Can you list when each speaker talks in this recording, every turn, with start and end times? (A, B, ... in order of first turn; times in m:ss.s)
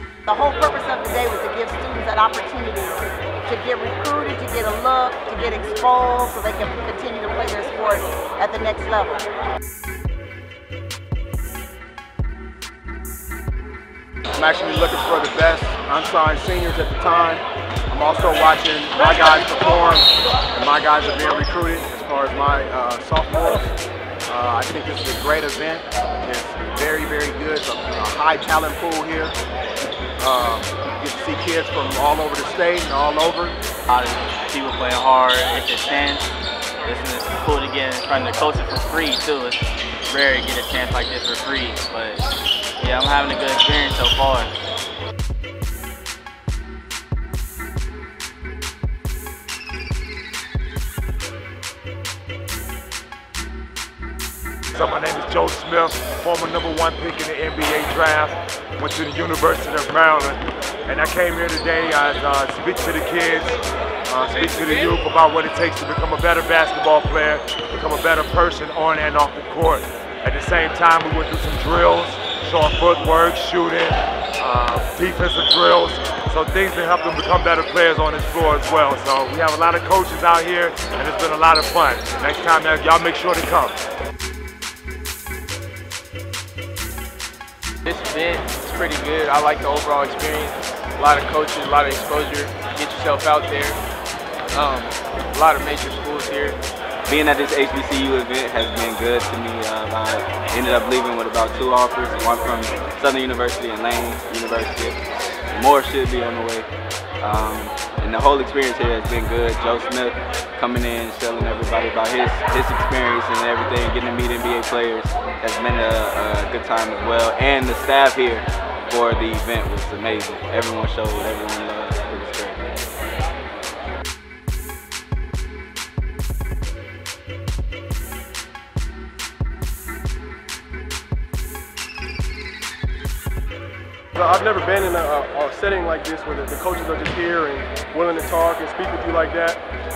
0:00.2-0:09.2 A
0:14.3-0:23.7 B
0:24.3-0:29.4 B
0:30.2-0:33.6 B
0:33.9-0:36.3 C
0:36.8-0:42.2 C
0:42.8-0:44.5 C
0:54.7-1:03.6 D
1:04.1-1:23.7 D
1:27.8-1:33.8 E
1:34.5-1:36.6 E
1:37.1-1:46.7 F
1:47.2-2:02.6 F
2:14.1-2:19.6 G